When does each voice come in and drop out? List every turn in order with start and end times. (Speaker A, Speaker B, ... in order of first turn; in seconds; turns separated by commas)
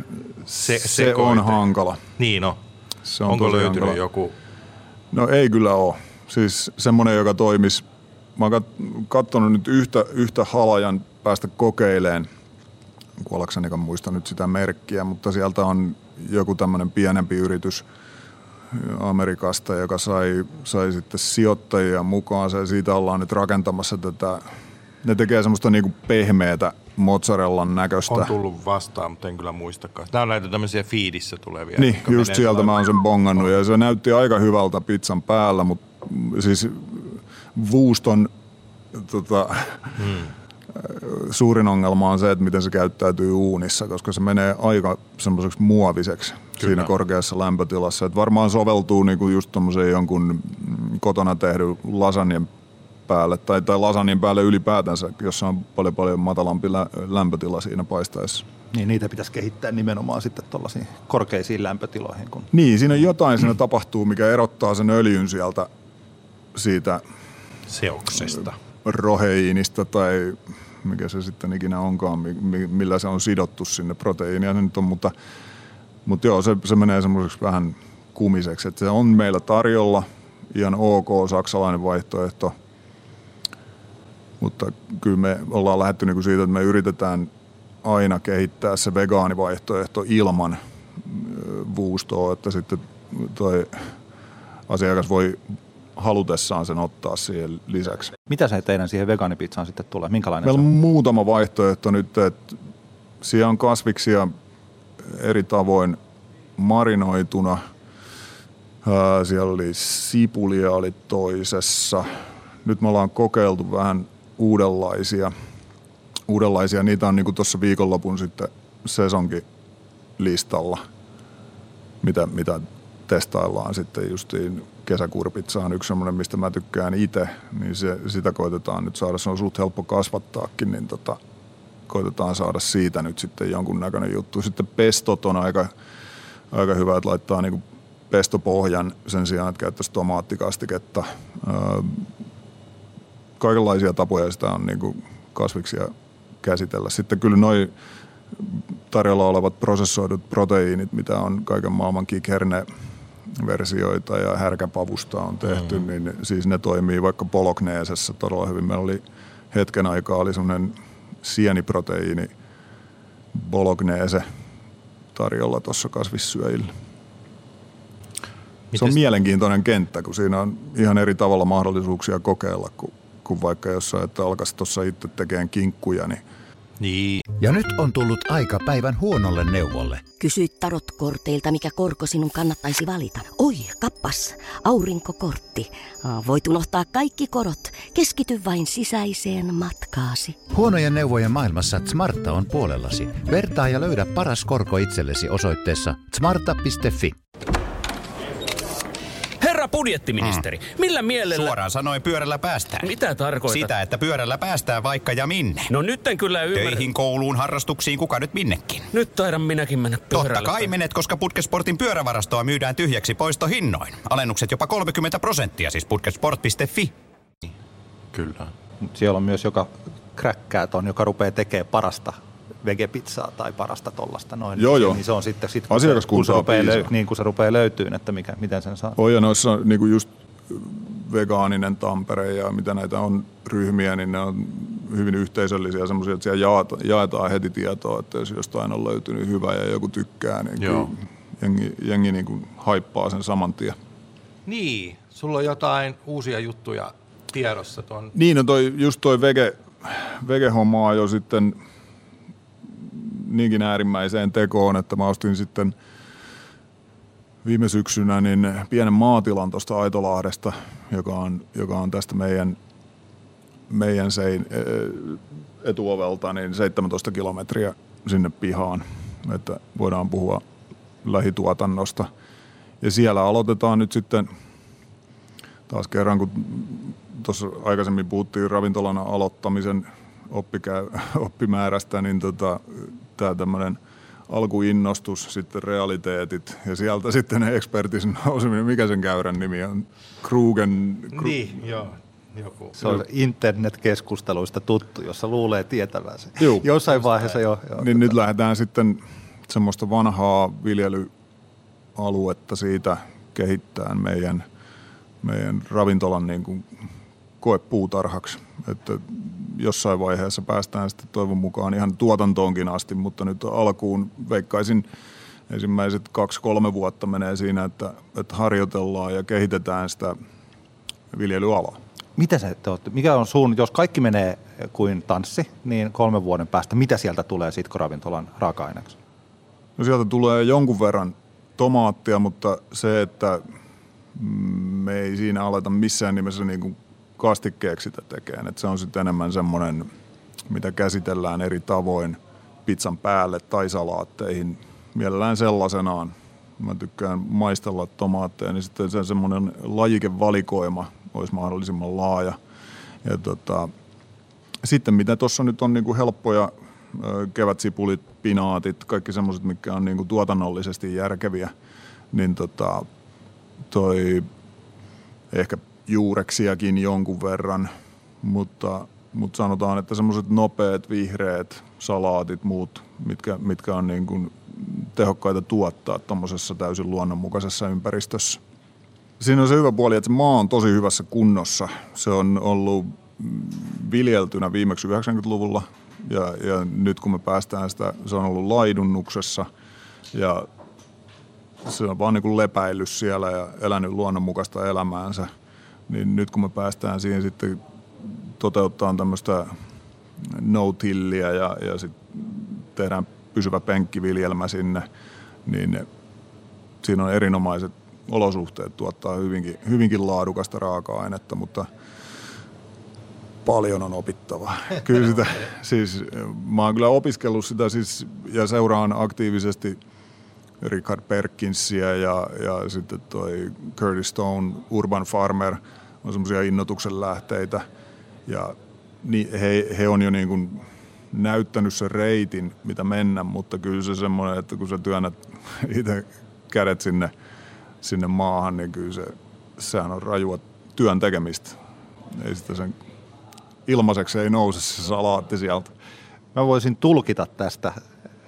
Speaker A: 0.4-2.0, Speaker B: 0.5-1.6, Speaker B: 2.2-2.6, Speaker A: 3.0-4.0, Speaker B: 3.2-4.3, Speaker A: 5.1-7.8, Speaker A: 8.3-12.3, Speaker A: 13.2-17.8, Speaker A: 18.7-24.4, Speaker A: 25.0-28.4, Speaker B: 28.1-32.9, Speaker A: 31.8-38.3, Speaker A: 38.9-40.1, Speaker B: 40.0-40.3, Speaker A: 40.7-52.5, Speaker A: 53.1-58.4, Speaker C: 58.7-62.5, Speaker A: 62.5-65.7, Speaker A: 66.5-67.0, Speaker B: 67.7-68.5, Speaker A: 68.2-75.1, Speaker A: 76.0-82.5, Speaker A: 84.4-87.3, Speaker A: 87.8-93.9, Speaker A: 94.7-95.4, Speaker A: 96.0-98.1, Speaker C: 98.3-100.7, Speaker A: 100.4-102.6, Speaker A: 103.2-104.3, Speaker A: 105.0-106.0, Speaker A: 106.6-107.6, Speaker A: 108.8-112.1, Speaker A: 112.6-115.3, Speaker A: 116.3-119.4, Speaker A: 120.2-120.8, Speaker A: 122.0-131.2, Speaker A: 131.9-135.7, Speaker A: 136.5-142.1, Speaker A: 143.4-147.7, Speaker A: 148.3-152.7, Speaker A: 153.3-162.3, Speaker A: 163.3-164.2, Speaker A: 165.1-166.7, Speaker A: 168.7-176.2, Speaker B: 176.8-177.2, Speaker D: 177.4-180.0, Speaker E: 180.2-190.4, Speaker D: 190.5-197.2, Speaker F: 199.4-201.5, Speaker G: 201.3-202.9, Speaker F: 202.8-203.7, Speaker G: 203.4-205.7, Speaker F: 205.7-206.9, Speaker G: 206.5-208.9, Speaker F: 208.9-210.7, Speaker G: 210.1-216.9, Speaker B: 218.1-218.5, Speaker C: 218.8-229.0, Speaker A: 224.6-225.0, Speaker A: 225.7-226.9, Speaker A: 229.0-243.8, Speaker B: 240.6-240.9, Speaker B: 244.4-248.1, Speaker A: 248.1-251.6, Speaker A: 252.8-255.7, Speaker A: 257.4-262.6, Speaker A: 263.7-270.4, Speaker A: 271.0-272.1, Speaker A: 272.8-274.3, Speaker A: 275.7-291.6, Speaker B: 291.1-292.8, Speaker C: 292.8-298.1, Speaker A: 296.4-296.7, Speaker A: 297.8-301.1, Speaker A: 301.9-304.4, Speaker A: 305.2-306.8, Speaker A: 307.4-314.9, Speaker A: 315.5-320.1, Speaker A: 321.1-321.8, Speaker C: 322.2-328.9, Speaker A: 329.8-333.4, Speaker A: 334.1-339.9, Speaker A: 340.5-352.4, Speaker A: 353.0-353.7, Speaker A: 354.6-361.5, Speaker A: 362.1-362.9, Speaker A: 363.7-364.3, Speaker A: 365.3-378.4, Speaker A: 379.2-389.5, Speaker A: 390.1-390.5, Speaker A: 391.6-395.3, Speaker A: 395.9-399.5, Speaker A: 400.2-404.9, Speaker A: 405.4-405.9, Speaker A: 406.8-411.7, Speaker A: 413.4-419.8, Speaker A: 420.6-427.6, Speaker A: 428.2-437.1, Speaker A: 437.8-441.6, Speaker A: 442.1-442.7, Speaker A: 443.6-445.7, Speaker C: 446.3-447.8